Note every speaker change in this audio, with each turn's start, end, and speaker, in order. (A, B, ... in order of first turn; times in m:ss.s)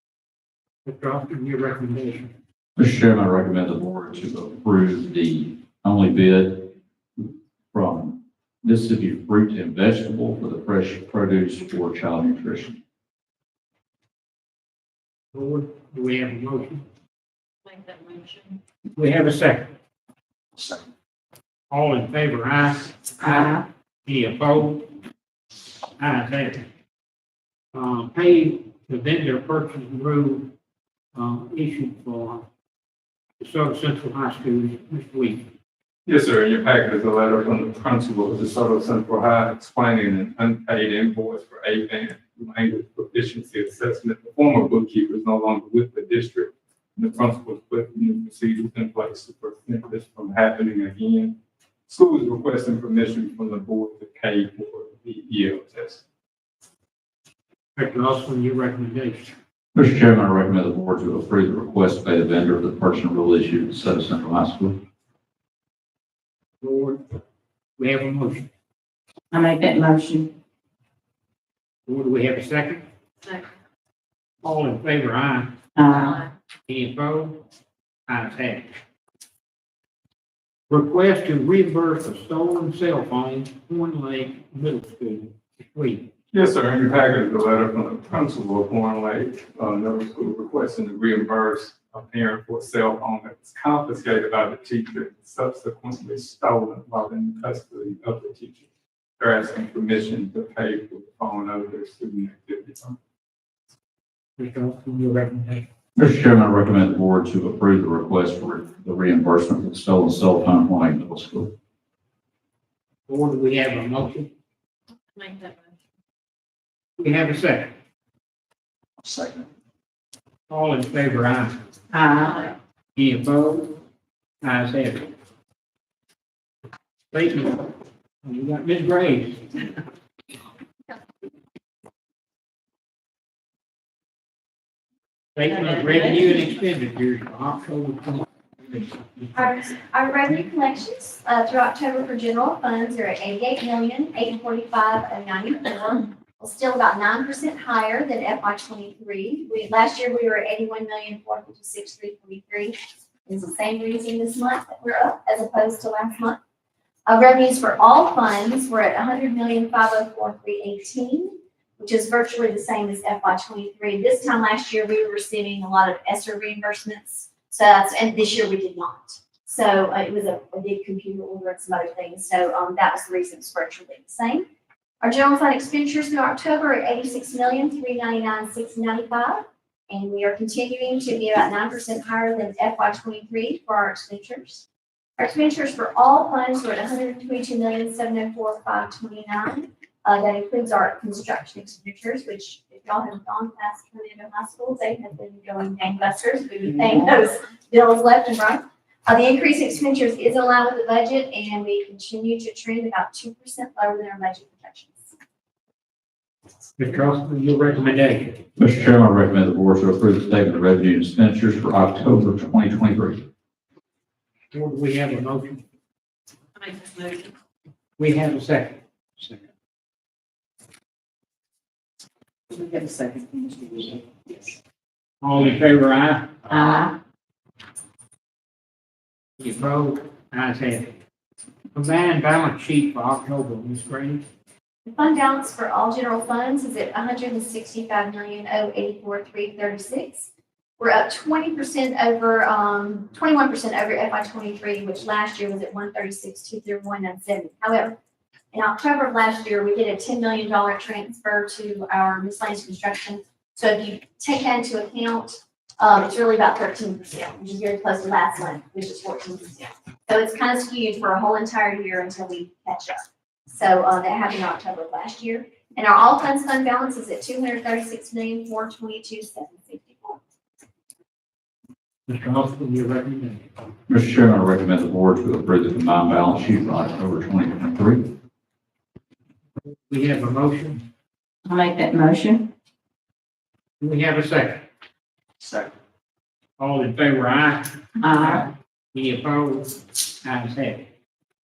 0:00.8-0:02.3 A
0:02.8-0:12.8 B
0:15.3-0:16.8 A
0:17.7-0:18.6 C
0:19.0-0:19.7 A
0:21.7-0:24.9 A
0:26.0-0:26.6 A
0:27.7-0:30.5 A
0:31.1-0:32.4 A
0:33.4-0:35.5 A
0:36.0-0:51.4 D
0:51.9-0:56.0 D
0:57.8-0:59.3 A
0:59.7-1:04.8 B
1:06.6-1:07.2 A
1:07.8-1:08.5 A
1:09.3-1:10.3 E
1:11.9-1:12.8 A
1:14.4-1:15.6 A
1:15.8-1:16.3 E
1:16.7-1:17.4 A
1:18.1-1:18.7 A
1:20.7-1:26.1 A
1:26.3-1:38.6 D
1:39.2-1:43.0 D
1:44.4-1:45.6 A
1:46.0-1:51.5 B
1:53.1-1:54.3 A
1:55.2-1:55.6 C
1:57.0-1:57.7 A
2:00.5-2:01.6 A
2:01.9-2:02.4 E
2:03.0-2:03.8 A
2:04.4-2:05.1 A
2:07.1-2:07.7 A
2:08.2-2:09.8 A
2:15.3-2:19.4 A
2:19.3-2:36.4 F
2:37.0-2:54.4 F
2:55.0-3:04.6 F
3:05.2-3:25.1 F
3:26.8-3:28.4 A
3:28.6-3:33.3 B
3:34.5-3:35.6 A
3:36.6-3:37.3 C
3:38.0-3:39.4 A
3:42.6-3:43.7 E
3:45.2-3:46.5 A
3:46.5-3:46.9 E
3:49.4-3:50.9 A
3:51.7-3:54.2 A
3:54.9-4:08.0 F
4:08.5-4:30.2 F
4:32.1-4:33.5 A
4:33.9-4:38.1 B
4:39.7-4:40.8 A
4:41.4-4:42.5 E
4:43.8-4:44.7 A
4:46.6-4:50.9 A
4:48.0-4:48.4 E